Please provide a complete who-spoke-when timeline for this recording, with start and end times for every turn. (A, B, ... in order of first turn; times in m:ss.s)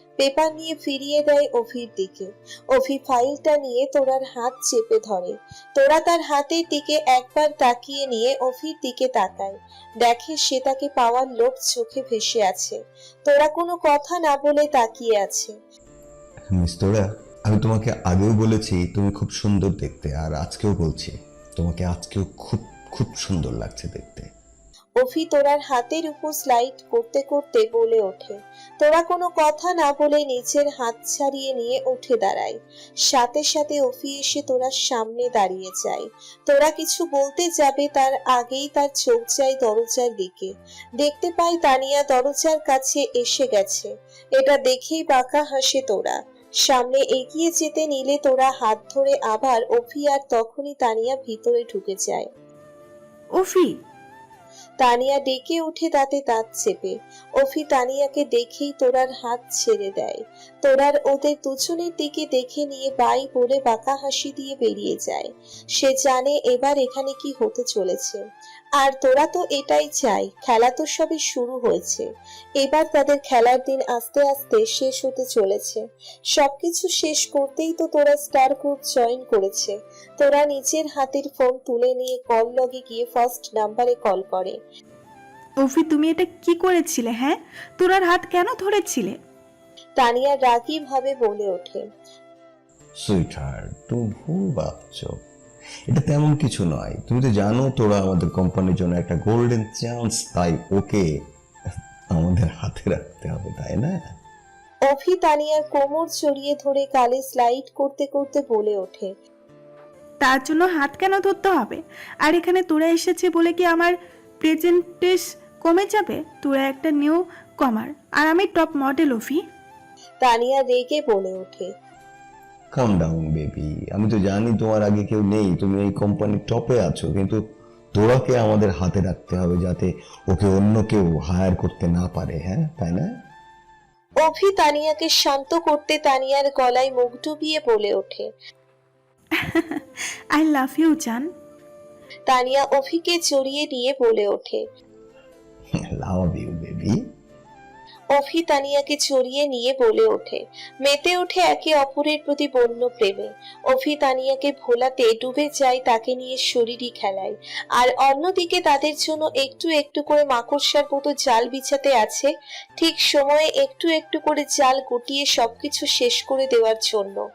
0:00.2-0:15.5 A
0:16.5-0:24.3 B
0:25.0-0:32.6 A
0:33.1-0:52.3 A
0:53.4-0:53.7 C
0:54.8-1:08.2 A
1:08.8-1:12.1 A
1:12.6-1:15.8 A
1:16.3-1:24.6 A
1:25.6-1:29.2 C
1:30.0-1:31.8 A
1:33.0-1:35.2 B
1:35.9-1:41.1 B
1:42.1-1:44.0 B
1:44.9-1:49.1 A
1:50.2-1:59.4 C
2:00.2-2:01.7 A
2:02.7-2:07.4 B
2:07.9-2:13.1 B
2:14.2-2:18.3 A
2:19.5-2:19.8 C
2:20.4-2:21.3 C
2:22.3-2:24.6 A
2:25.9-2:27.0 B
2:28.1-2:47.2 A